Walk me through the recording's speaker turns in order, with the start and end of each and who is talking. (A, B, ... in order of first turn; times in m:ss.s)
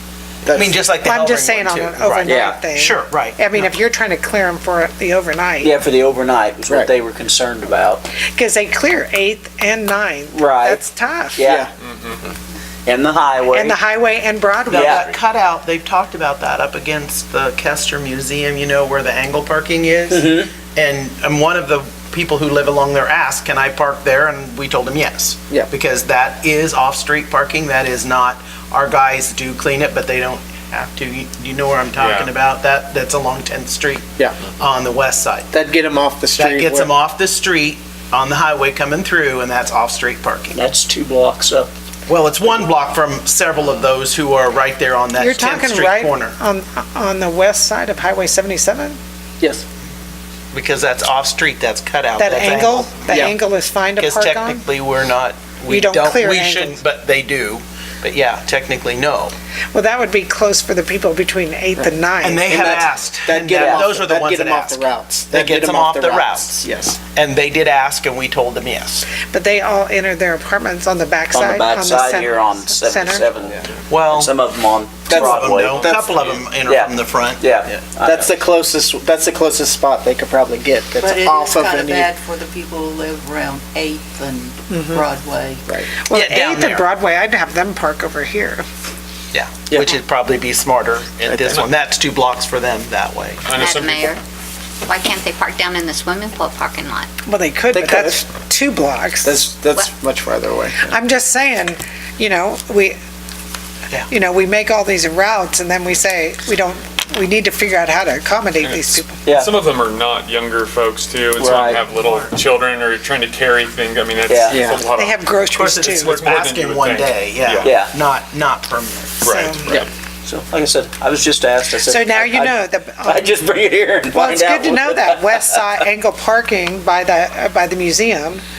0:00.4-0:00.8 A
0:00.5-0:03.6 B
0:01.0-0:05.7 C
0:02.2-0:02.7 D
0:05.6-0:08.1 D
0:08.3-0:11.4 C
0:10.3-0:10.8 D
0:11.4-0:11.7 D
0:11.4-0:11.7 A
0:11.8-0:12.2 E
0:12.9-0:13.8 D
0:13.5-0:15.1 C
0:14.7-0:20.2 B
0:14.7-0:15.2 D
0:20.1-0:20.6 D
0:20.7-0:35.5 B
0:31.9-0:32.3 E
0:35.5-0:36.9 A
0:36.4-0:40.6 B
0:40.5-0:41.7 D
0:42.1-0:46.4 B
0:45.2-0:49.0 C
0:50.5-0:53.1 B
0:52.2-0:54.6 C
0:53.1-0:53.4 A
0:54.0-0:59.3 B
0:55.7-0:56.8 C
0:59.7-1:02.5 C
1:01.8-1:07.0 A
1:02.2-1:09.0 B
1:03.6-1:03.9 D
1:09.2-1:13.3 C
1:11.3-1:15.9 D
1:13.9-1:14.3 B
1:15.1-1:16.4 A
1:15.1-1:17.8 B
1:16.6-1:18.4 D
1:18.0-1:22.1 A
1:21.0-1:25.7 F
1:24.7-1:25.0 C
1:25.7-1:25.9 A
1:26.0-1:28.6 C
1:26.1-1:26.9 B
1:29.3-1:33.5 B
1:29.7-1:30.0 A
1:31.2-1:31.6 A
1:33.4-1:34.1 E
1:33.6-1:34.2 G
1:34.8-1:37.1 G
1:37.3-1:39.5 C
1:37.7-1:38.2 A
1:39.2-1:40.9 A
1:40.9-1:43.0 C
1:44.1-1:49.2 C
1:48.6-1:57.8 E
1:49.2-1:49.5 D
1:51.4-1:51.8 D
1:54.3-1:54.6 D
1:54.5-1:54.8 A
1:55.0-1:56.2 C
1:55.5-1:59.8 B
1:57.6-1:57.9 D
1:59.2-1:59.9 E
1:59.3-1:59.7 C
2:00.2-2:05.5 D
2:01.9-2:03.3 C
2:04.1-2:08.4 C